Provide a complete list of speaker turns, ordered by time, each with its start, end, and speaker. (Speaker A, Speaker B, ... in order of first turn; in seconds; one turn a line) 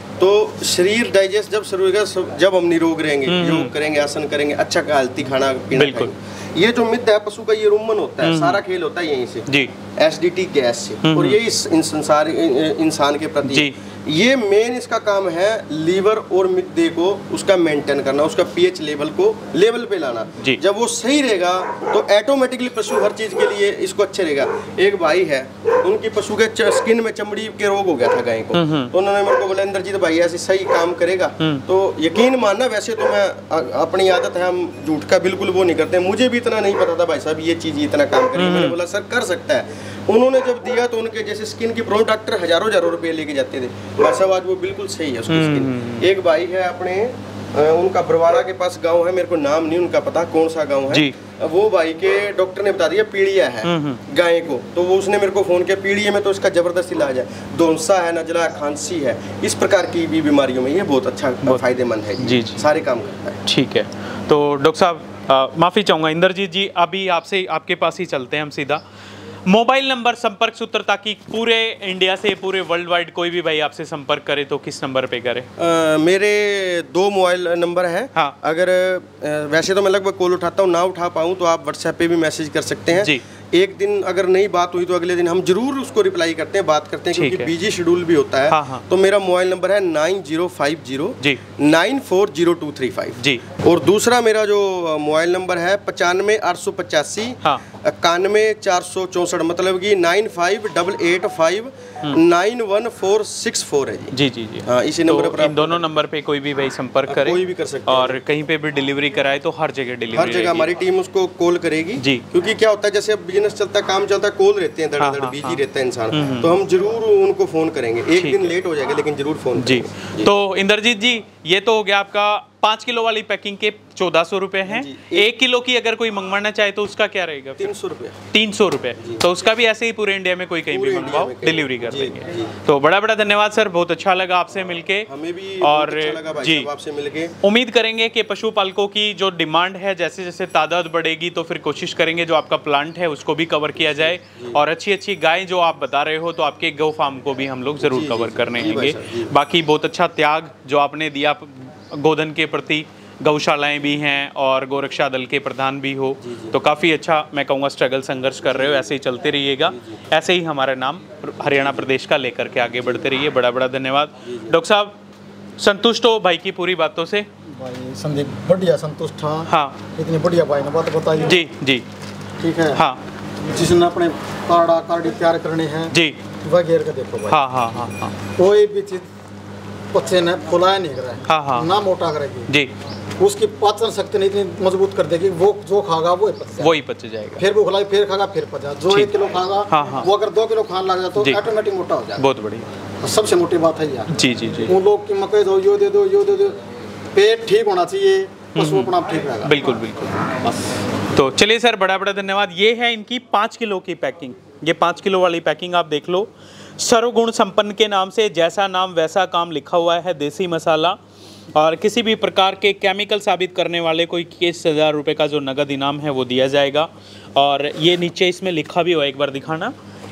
Speaker A: 0.2-63.4
Speaker B: 3.3-3.7
Speaker B: 5.7-6.1
Speaker B: 8.2-8.6
Speaker B: 11.0-11.4
Speaker B: 13.4-13.7
Speaker B: 28.5-28.9
Speaker B: 38.4-38.8
Speaker B: 45.3-46.0
Speaker B: 53.6-54.0
Speaker B: 62.2-62.6
Speaker B: 63.5-68.8
Speaker B: 69.5-75.5
Speaker A: 75.6-105.9
Speaker B: 82.9-83.2
Speaker B: 87.1-87.5
Speaker B: 88.5-88.8
Speaker B: 104.1-110.7
Speaker A: 107.0-108.2
Speaker A: 110.1-120.3
Speaker B: 115.0-115.6
Speaker B: 116.1-116.5
Speaker B: 118.2-118.5
Speaker B: 119.6-127.7
Speaker A: 124.6-125.3
Speaker A: 127.6-128.2
Speaker B: 128.3-135.1
Speaker A: 130.7-132.6
Speaker A: 135.1-137.3
Speaker B: 135.6-136.7
Speaker B: 137.4-164.9
Speaker A: 143.8-144.6
Speaker A: 147.8-149.3
Speaker A: 156.2-156.5
Speaker A: 158.4-158.9
Speaker A: 159.7-159.9
Speaker A: 161.4-161.9
Speaker A: 164.2-164.6
Speaker B: 165.6-167.3
Speaker C: 167.5-171.3
Speaker B: 169.5-169.8
Speaker B: 171.2-171.8
Speaker C: 172.4-172.8
Speaker B: 172.7-173.0
Speaker C: 173.4-175.9
Speaker B: 175.9-176.2
Speaker C: 176.4-177.4
Speaker B: 177.3-178.1
Speaker C: 178.3-179.1
Speaker C: 179.9-182.5
Speaker B: 181.3-181.7
Speaker C: 183.2-186.7
Speaker B: 186.6-187.4
Speaker C: 187.4-192.2
Speaker B: 189.7-190.1
Speaker B: 192.2-192.7
Speaker C: 193.0-194.1
Speaker B: 194.1-194.7
Speaker C: 194.7-196.6
Speaker C: 197.1-199.5
Speaker B: 198.6-198.9
Speaker B: 199.4-200.2
Speaker B: 201.1-211.0
Speaker B: 211.5-219.7